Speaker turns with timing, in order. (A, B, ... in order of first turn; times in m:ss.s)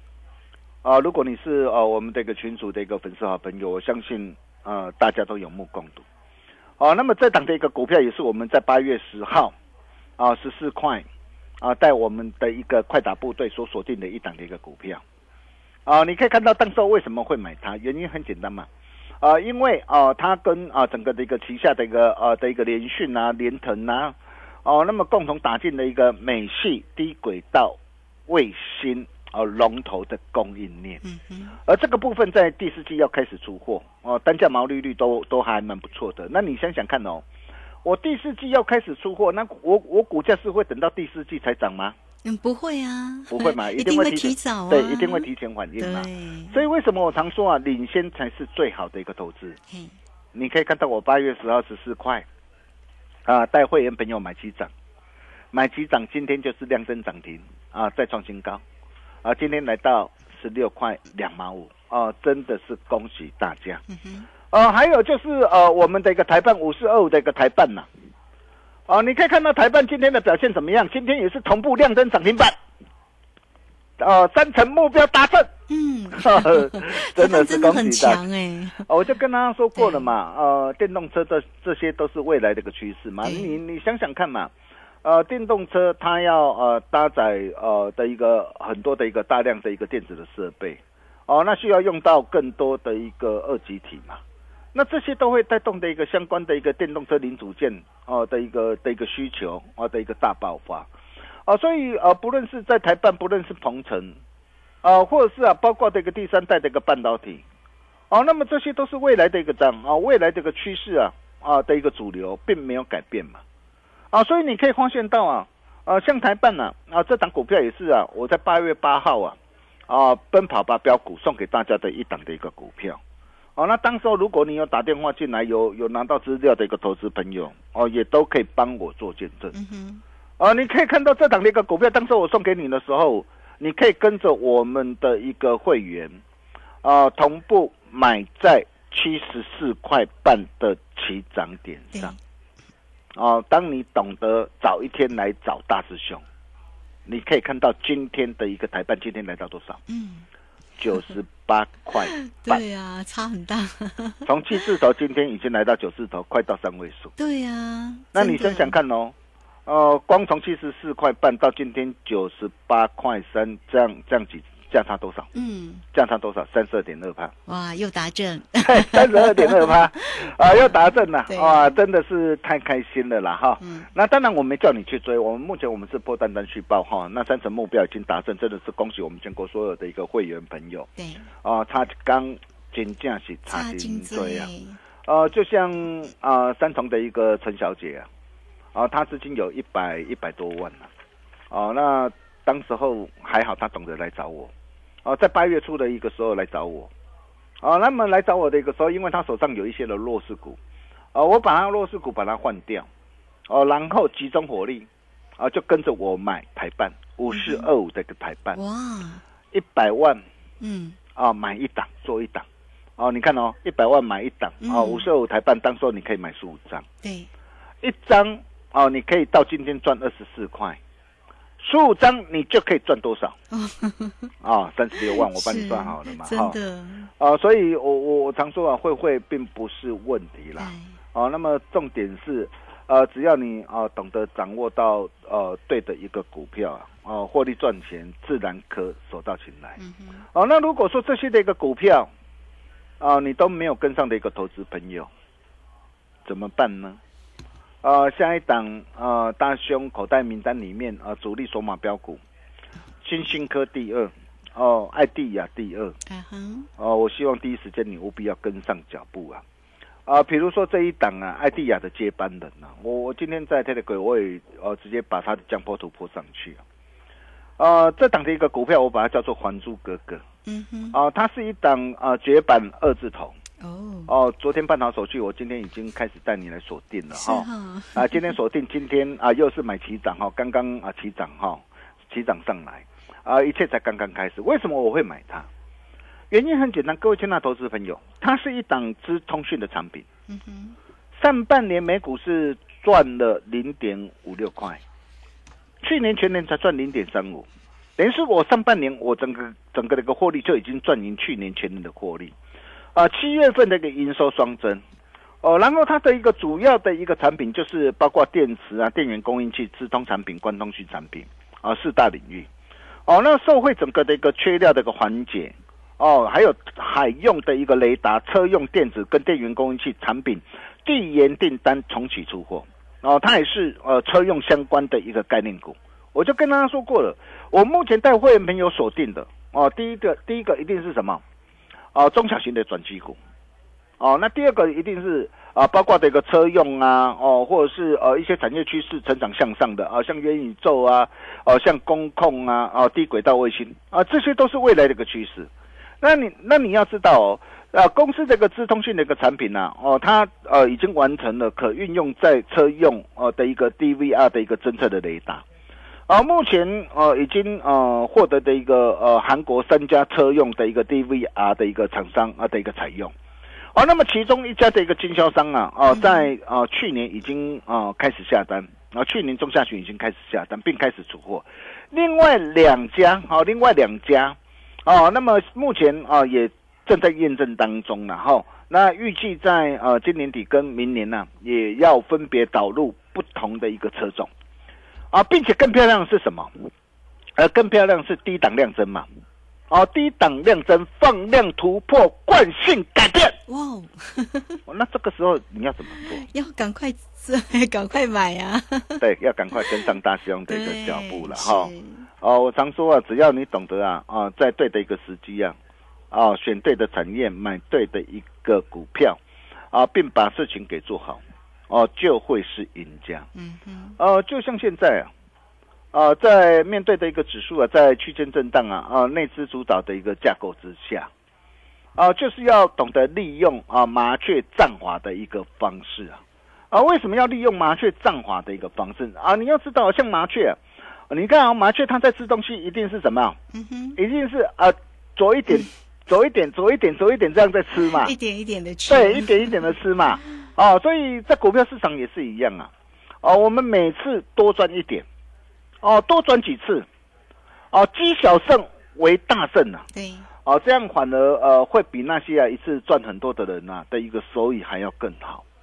0:00.8-0:06.0 A
0:06.8-0:09.5 A
0:10.2-0:11.0 A
0:11.6-0:15.0 A
0:15.8-0:18.7 A
0:19.2-0:27.8 A
0:28.3-0:31.0 A
0:31.0-0:31.5 B
0:31.6-0:37.2 A
0:37.8-0:42.0 A
0:42.2-0:46.6 B
0:43.3-0:49.6 A
0:49.7-0:49.9 B
0:50.3-0:52.2 A
0:53.2-0:54.7 A
0:55.5-0:58.6 A
0:59.2-1:03.8 A
1:03.9-1:04.2 B
1:04.5-1:07.9 A
1:08.9-1:12.6 A
1:14.0-1:15.5 A
1:15.7-1:18.8 B
1:16.2-1:18.2 A
1:18.8-1:24.5 A
1:19.8-1:20.1 B
1:23.2-1:23.6 B
1:25.0-1:34.2 A
1:34.7-1:40.9 A
1:41.4-1:44.2 A
1:44.8-1:47.4 A
1:48.1-1:53.4 A
1:54.1-1:59.4 A
1:59.9-2:03.0 A
2:03.6-2:09.5 A
2:09.5-2:10.0 B
2:10.4-2:16.2 A
2:16.8-2:22.1 A
2:21.9-2:22.2 B
2:23.1-2:26.2 A
2:27.0-2:29.8 A
2:29.9-2:30.2 B
2:30.8-2:32.6 A
2:31.9-2:34.6 B
2:34.2-2:37.1 A
2:37.2-2:38.8 B
2:38.1-2:39.1 A
2:39.6-2:45.3 A
2:45.3-2:45.8 B
2:45.9-2:47.3 A
2:47.4-2:51.7 B
2:48.6-3:00.9 A
2:53.6-2:53.9 B
3:01.0-3:01.3 B
3:01.4-3:04.5 A
3:03.5-3:04.8 B
3:05.0-3:08.1 A
3:08.7-3:10.9 A
3:11.5-3:14.5 A
3:15.0-3:16.9 A
3:17.6-3:20.6 A
3:21.1-3:22.9 A
3:23.5-3:24.9 A
3:25.4-3:28.6 A
3:27.3-3:27.7 B
3:28.5-3:29.2 B
3:29.5-3:30.2 A
3:30.6-3:31.0 B
3:31.1-3:32.4 A
3:33.0-3:36.8 A
3:34.6-3:35.1 B
3:37.0-3:37.3 B
3:37.8-3:40.8 A
3:41.6-3:43.3 A
3:43.5-3:44.3 B
3:44.4-3:46.6 A
3:45.0-3:47.1 B
3:47.2-3:59.8 A
3:50.6-3:50.9 B
3:59.8-4:00.2 B
4:00.3-4:02.1 A
4:03.0-4:05.1 A
4:06.2-4:07.0 A
4:07.8-4:12.2 A
4:13.0-4:15.9 A
4:16.0-4:16.7 B
4:16.8-4:19.4 A
4:20.1-4:26.6 A
4:27.6-4:30.2 A
4:30.4-4:31.0 B
4:30.9-4:33.4 A
4:33.6-4:34.1 B
4:34.1-4:45.5 A
4:37.1-4:38.4 B
4:46.3-4:50.0 A
4:50.3-4:50.8 B
4:51.1-4:54.8 A
4:55.8-5:02.3 A
5:02.9-5:04.8 A
5:05.4-5:12.5 A
5:13.1-5:31.2 A
5:31.9-5:33.2 A
5:34.0-5:45.5 A
5:46.0-5:55.4 A
5:56.1-6:03.1 A
6:03.7-6:24.3 A
6:05.9-6:06.3 B
6:25.1-6:26.5 A
6:27.4-6:29.1 A
6:29.7-6:33.4 A
6:33.5-6:34.6 B
6:34.7-6:36.2 A
6:35.9-6:39.0 B
6:39.0-6:41.7 A
6:39.6-6:39.9 B
6:40.5-6:42.1 B
6:42.2-6:45.6 A
6:46.1-6:49.2 A
6:49.7-6:53.3 A
6:53.3-6:53.9 B
6:54.0-6:55.1 A
6:55.9-7:01.1 A
7:02.0-7:06.2 A
7:06.7-7:10.6 A
7:11.1-7:13.4 A
7:13.5-7:14.0 B
7:14.0-7:18.1 A
7:17.8-7:19.8 B
7:18.9-7:22.7 A
7:23.2-7:25.0 A
7:25.8-7:26.8 A
7:27.7-7:29.8 A
7:29.9-7:30.3 B
7:30.4-7:35.4 A